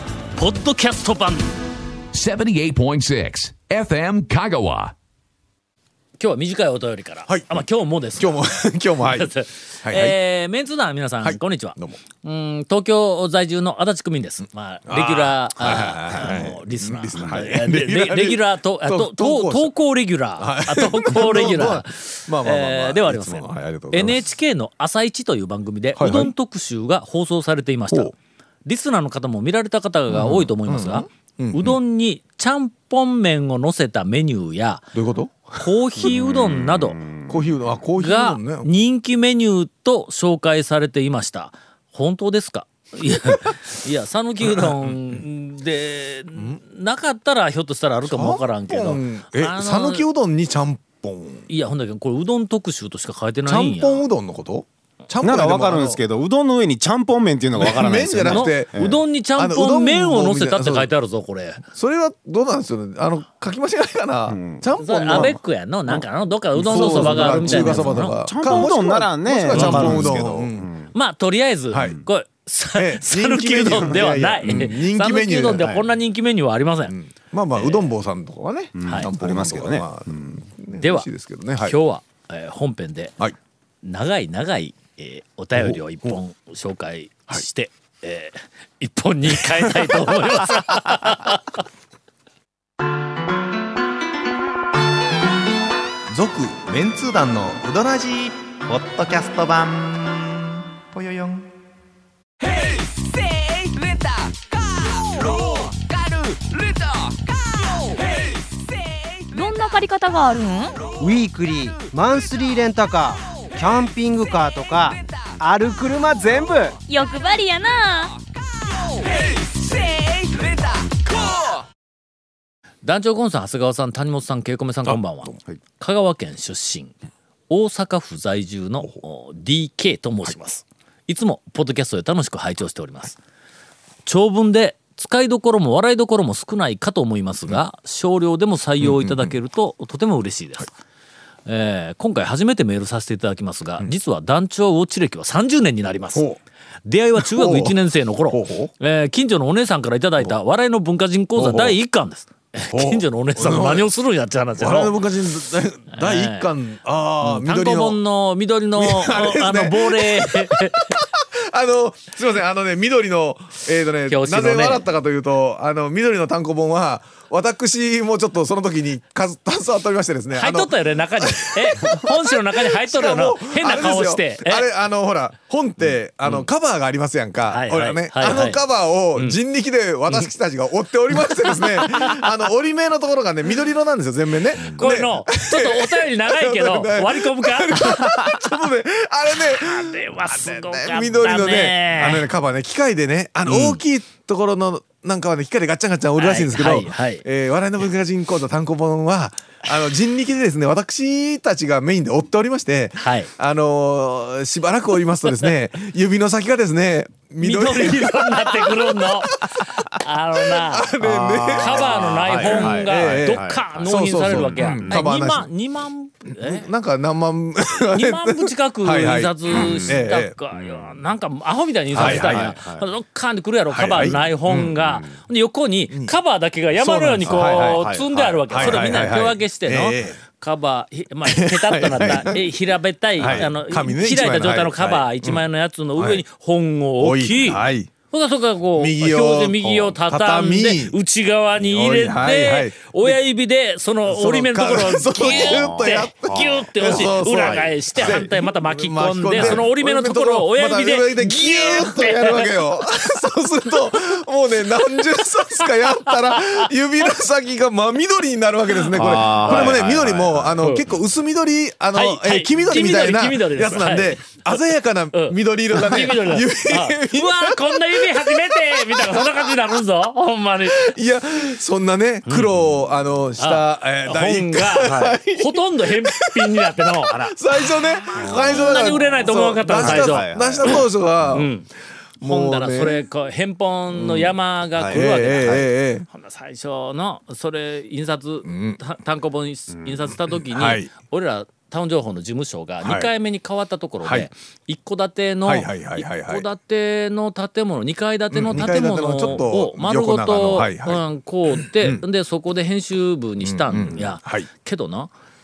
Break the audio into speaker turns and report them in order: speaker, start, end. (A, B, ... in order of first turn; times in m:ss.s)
0:00.4-0:01.5 A
0:02.1-0:04.9 B
0:06.2-0:08.4 A
0:07.3-0:07.6 C
0:08.2-0:09.3 C
0:09.0-0:34.9 A
0:09.8-0:10.2 C
0:11.2-0:12.0 C
0:14.9-0:19.7 C
0:20.4-0:24.3 C
0:26.0-0:26.3 C
0:30.1-0:31.8 C
0:34.9-0:35.6 C
0:35.5-0:37.0 A
0:36.0-0:37.7 D
0:37.3-0:38.7 C
0:38.0-0:50.1 A
0:44.4-0:45.2 C
0:48.0-0:51.5 C
0:51.5-0:54.1 A
0:53.4-0:56.0 C
0:55.2-0:59.0 D
0:57.6-1:00.9 C
0:58.2-1:01.6 A
1:01.7-1:05.4 C
1:04.3-1:05.3 D
1:04.8-1:08.7 A
1:06.6-1:10.7 C
1:06.6-1:10.9 D
1:09.5-1:10.1 A
1:10.9-1:16.9 A
1:11.7-1:12.0 C
1:12.7-1:15.7 C
1:15.5-1:15.8 D
1:16.9-1:21.8 C
1:17.5-1:17.9 A
1:18.8-1:20.4 D
1:18.8-1:19.1 A
1:20.8-1:21.1 A
1:21.6-1:23.1 A
1:23.8-1:31.6 A
1:25.6-1:26.2 C
1:29.4-1:31.2 C
1:36.1-1:41.5 E
1:49.3-1:50.8 F
1:51.0-1:56.8 G
1:56.9-1:58.1 F
2:02.8-2:06.9 A
2:04.8-2:05.4 C
2:07.5-2:13.2 A
2:14.0-2:20.7 A
2:18.8-2:19.3 C
2:21.4-2:26.3 A
2:26.1-2:26.4 C
2:26.8-2:35.0 A
2:27.2-2:27.8 C
2:28.3-2:28.7 C
2:31.4-2:31.8 C
2:32.7-2:33.9 C
2:34.6-2:38.0 C
2:35.9-2:36.5 A
2:37.2-2:40.9 A
2:38.8-3:29.8 C
2:44.1-2:44.8 A
2:50.3-2:54.7 A
2:57.5-2:58.6 A
3:01.4-3:02.2 A
3:04.6-3:08.5 A
3:09.4-3:12.3 A
3:13.4-3:13.8 A
3:16.2-3:17.2 A
3:23.0-3:23.3 A
3:25.2-3:25.5 A
3:27.4-3:36.7 A
3:30.3-3:35.5 C
3:31.3-3:35.0 D
3:36.3-3:40.3 C
3:37.8-4:12.6 A
3:39.5-3:40.0 D
3:40.5-3:41.0 D
3:41.9-3:42.8 D
3:41.9-3:42.5 C
3:43.7-3:44.7 C
3:44.8-3:45.2 D
3:45.9-3:46.1 C
3:46.7-3:48.0 C
3:47.3-3:48.8 D
3:48.5-3:50.2 C
3:51.2-3:52.5 C
3:53.2-3:55.4 C
3:53.2-3:53.5 D
3:56.0-3:56.2 C
3:57.0-3:57.9 C
3:58.7-4:01.0 C
4:01.6-4:03.1 C
4:04.0-4:29.8 C
4:05.2-4:08.3 D
4:09.4-4:09.6 D
4:15.6-4:16.7 A
4:18.9-4:20.6 D
4:19.2-4:19.8 A
4:20.6-4:20.8 A
4:21.9-4:24.6 A
4:25.1-4:30.9 A
4:30.7-4:41.5 C
4:32.2-4:32.5 A
4:33.4-4:37.2 A
4:34.8-4:35.2 D
4:38.1-4:39.2 D
4:38.2-4:41.7 A
4:39.8-4:40.8 D
4:42.2-4:43.1 C
4:42.2-5:05.1 A
4:43.9-4:44.3 C
4:44.9-4:46.0 C
4:48.4-4:48.8 C
4:49.7-4:50.1 D
4:50.3-4:50.9 C
4:52.8-4:53.1 C
4:54.0-4:54.3 C
4:55.4-4:56.4 C
4:58.3-5:01.7 C
5:03.4-5:04.5 C